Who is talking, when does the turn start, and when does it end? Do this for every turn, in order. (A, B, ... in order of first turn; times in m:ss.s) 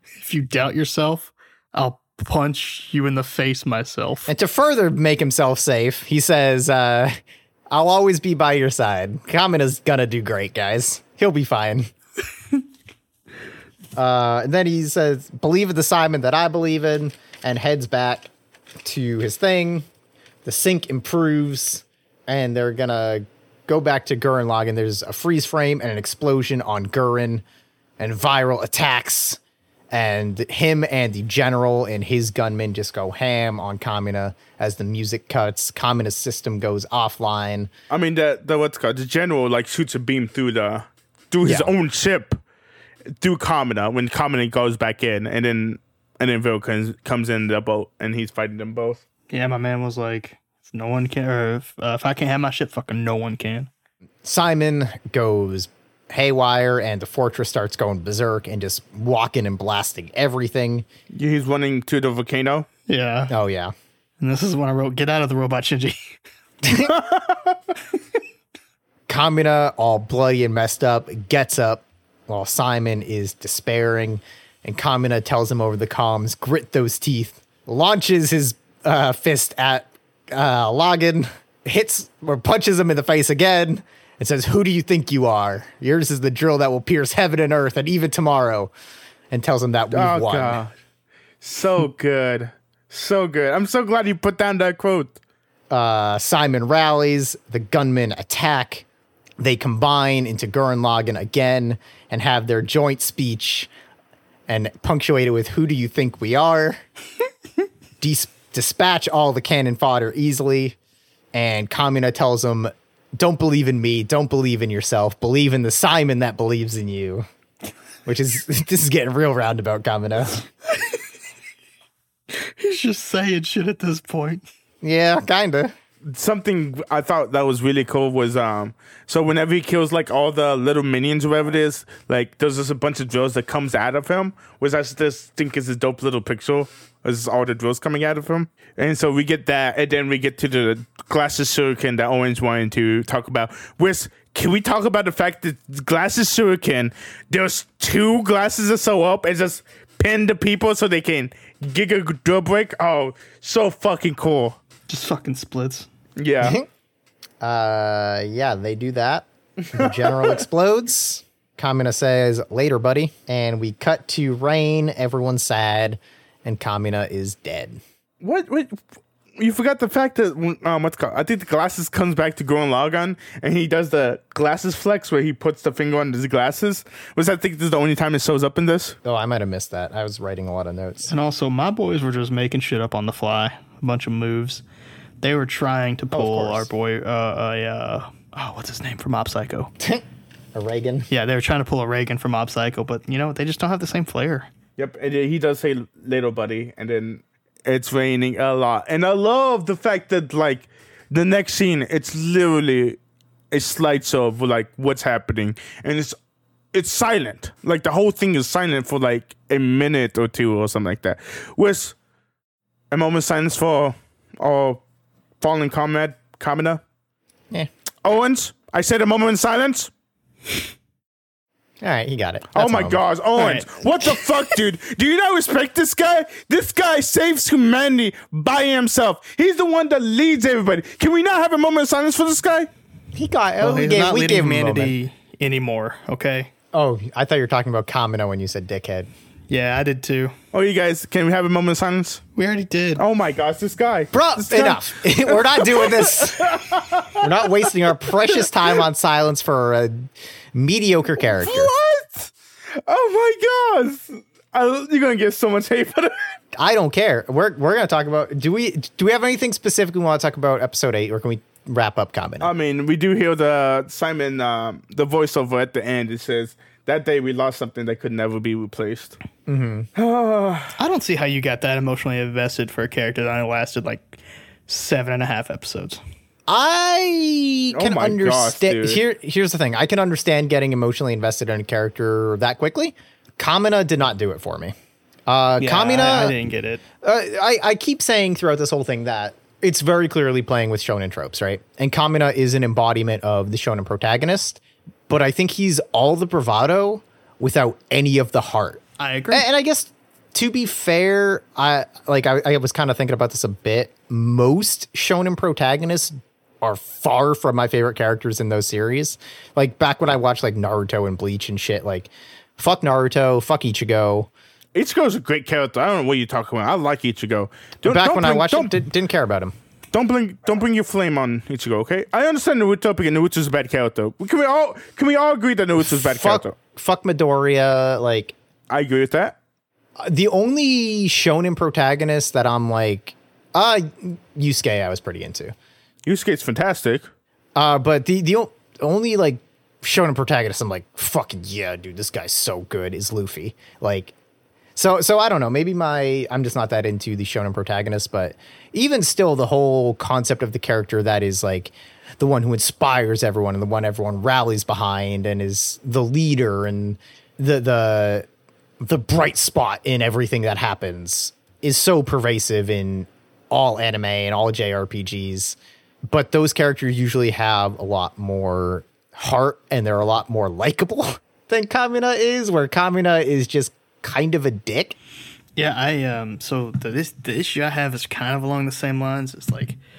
0:00.2-0:04.3 A
0:04.3-0:07.2 B
0:07.7-0:11.9 B
0:14.0-0:18.3 B
0:18.8-0:19.9 B
0:20.4-0:27.4 B
0:28.0-0:29.4 B
0:29.9-0:37.7 B
0:37.9-0:42.4 C
0:41.4-0:41.7 B
0:43.2-0:49.0 C
0:49.3-0:53.7 A
0:54.2-1:00.8 B
1:01.1-1:02.7 C
1:02.9-1:03.3 A
1:03.3-1:03.7 B
1:04.2-1:06.2 A
1:06.6-1:06.9 B
1:06.8-1:07.7 C
1:09.1-1:28.7 B
1:29.3-1:30.6 B
1:29.9-1:30.7 C
1:31.4-1:35.2 C
1:35.7-1:38.8 B
1:39.4-1:43.7 B
1:44.5-1:46.8 B
1:48.0-1:50.8 B
1:51.3-1:57.2 B
1:58.0-2:00.4 B
2:00.7-2:01.0 A
2:02.3-2:04.4 A
2:04.8-2:05.7 B
2:06.0-2:34.6 C
2:34.9-2:35.9 A
2:36.2-2:36.6 C
2:37.4-2:47.8 B
2:39.6-2:40.4 C
2:48.2-2:48.8 C
2:49.4-2:59.0 C
2:59.0-3:01.1 B
3:01.1-3:04.6 A
3:05.2-3:09.7 A
3:06.1-3:06.7 B
3:10.5-3:11.1 B
3:11.1-3:14.5 A
3:14.8-3:23.0 C
3:23.5-3:26.2 C
3:26.7-3:31.9 C
3:32.9-3:34.8 C
3:35.4-3:36.8 C
3:38.0-3:39.9 C
3:41.8-3:43.0 B
3:42.5-3:52.7 C
3:43.4-3:44.6 A
3:53.1-3:54.9 B
3:53.6-3:56.5 A
3:56.7-3:59.1 B
3:59.5-4:00.3 A
4:00.5-4:02.2 C
4:02.4-4:03.0 A
4:03.0-4:07.2 C
4:04.1-4:11.7 B
4:11.4-4:12.3 C
4:12.9-4:16.1 C
4:16.5-4:22.5 B
4:22.4-4:29.2 C
4:29.5-4:29.9 B
4:30.0-4:30.7 C
4:30.8-4:36.0 A
4:36.5-4:44.7 B
4:37.7-4:39.0 C
4:45.3-4:46.4 B
4:45.6-4:46.8 A
4:47.0-5:14.3 B
4:59.0-4:59.4 A
5:14.7-5:18.7 C
5:17.8-5:19.5 B
5:19.9-5:26.6 C
5:25.9-5:28.3 B
5:28.7-5:29.4 C
5:30.0-5:35.5 B
5:36.0-5:37.1 C
5:37.6-5:44.1 B
5:44.8-5:58.3 B
5:58.8-6:05.6 B
6:06.1-6:15.0 B
6:15.6-6:19.8 A